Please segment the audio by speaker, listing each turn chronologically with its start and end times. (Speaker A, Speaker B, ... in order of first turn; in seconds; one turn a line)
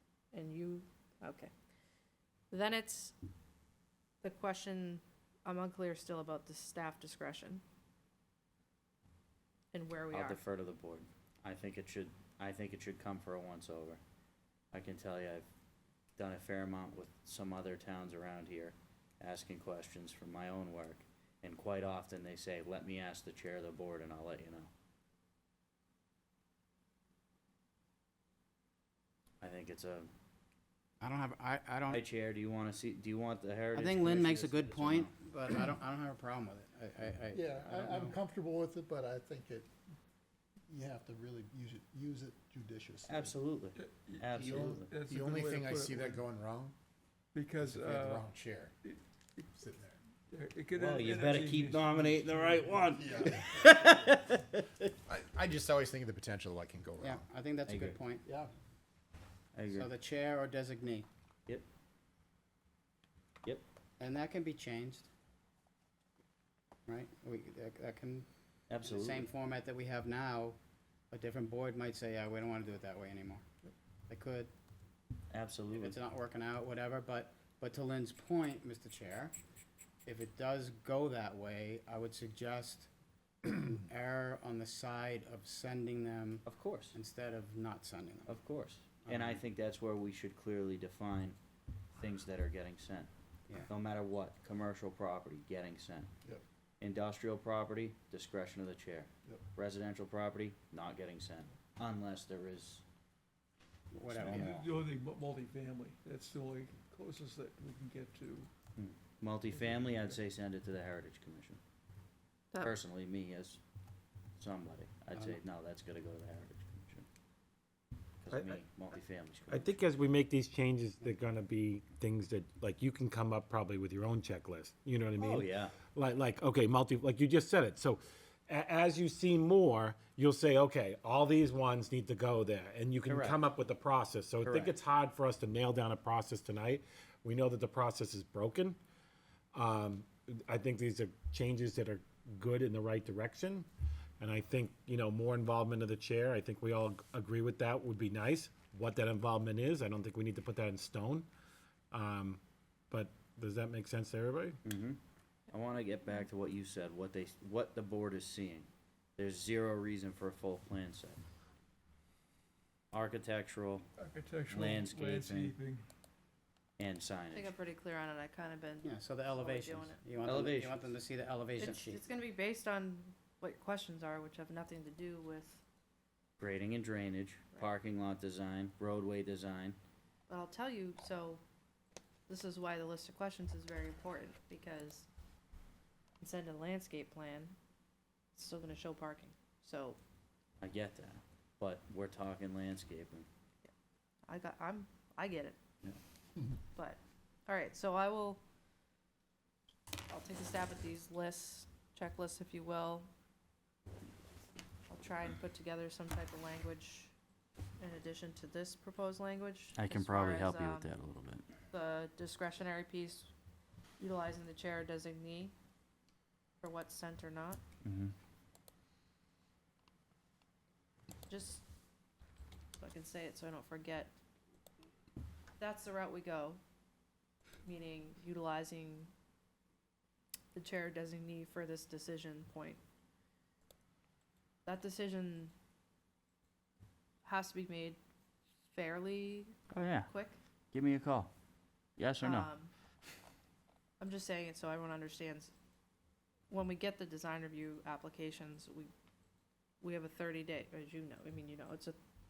Speaker A: 0.3-1.5
Speaker A: 2.5-3.1
Speaker A: 4.2-7.6
Speaker A: 9.7-10.4
Speaker B: 10.1-14.0
Speaker B: 14.7-15.5
Speaker B: 16.2-24.7
Speaker B: 29.4-30.1
Speaker C: 31.0-32.0
Speaker B: 31.9-35.1
Speaker C: 33.7-38.2
Speaker D: 37.3-39.7
Speaker D: 40.7-43.4
Speaker B: 43.1-44.9
Speaker E: 43.8-46.2
Speaker F: 44.4-46.8
Speaker E: 47.3-48.3
Speaker F: 47.6-48.7
Speaker F: 49.5-50.0
Speaker E: 50.3-52.9
Speaker B: 50.8-54.9
Speaker F: 52.9-53.7
Speaker F: 55.1-57.2
Speaker C: 57.0-58.3
Speaker B: 57.7-58.0
Speaker B: 59.5-59.9
Speaker C: 59.7-61.1
Speaker C: 64.0-65.1
Speaker C: 66.9-68.3
Speaker B: 68.7-69.3
Speaker C: 68.8-70.6
Speaker C: 71.1-73.4
Speaker C: 74.1-74.5
Speaker B: 75.3-76.0
Speaker C: 75.7-79.3
Speaker C: 80.1-82.9
Speaker C: 83.4-88.4
Speaker B: 86.5-87.0
Speaker B: 88.3-91.4
Speaker C: 89.0-89.4
Speaker B: 92.0-96.1
Speaker B: 96.8-102.8
Speaker C: 103.9-104.7
Speaker B: 104.2-104.7
Speaker E: 104.2-108.5
Speaker B: 108.8-111.6
Speaker E: 109.5-110.2
Speaker B: 112.6-113.6
Speaker B: 114.4-117.1
Speaker C: 115.1-115.4
Speaker B: 118.2-119.7
Speaker G: 118.3-118.6
Speaker G: 119.5-138.8
Speaker B: 125.2-125.8
Speaker B: 133.1-133.4
Speaker B: 134.4-134.7
Speaker G: 139.5-143.7
Speaker G: 144.2-151.3
Speaker G: 151.9-154.6
Speaker B: 154.7-161.2
Speaker B: 162.9-163.9
Speaker E: 164.0-165.9
Speaker B: 164.5-165.6
Speaker B: 166.8-167.5
Speaker A: 167.3-170.0
Speaker C: 168.8-172.0
Speaker B: 170.2-170.9
Speaker A: 171.6-175.6
Speaker B: 176.4-179.8
Speaker A: 180.3-181.4
Speaker A: 182.3-185.1
Speaker A: 186.2-187.6
Speaker A: 188.3-190.0
Speaker B: 190.6-193.3
Speaker A: 194.3-195.6
Speaker A: 196.7-198.4
Speaker A: 200.1-203.1
Speaker A: 204.9-207.1
Speaker A: 207.8-210.9
Speaker B: 209.8-211.4
Speaker A: 211.7-213.3
Speaker A: 214.0-215.5
Speaker A: 216.6-217.6
Speaker B: 217.8-218.1
Speaker A: 221.3-221.6
Speaker A: 222.8-224.1
Speaker A: 225.6-226.6
Speaker A: 227.7-229.1
Speaker A: 230.5-232.8
Speaker A: 234.7-235.5
Speaker A: 237.2-238.0
Speaker A: 238.7-240.4
Speaker B: 239.7-240.1
Speaker B: 240.7-241.3
Speaker B: 242.0-242.5
Speaker A: 242.2-242.7
Speaker A: 244.0-245.5
Speaker A: 246.5-248.9
Speaker A: 249.8-252.0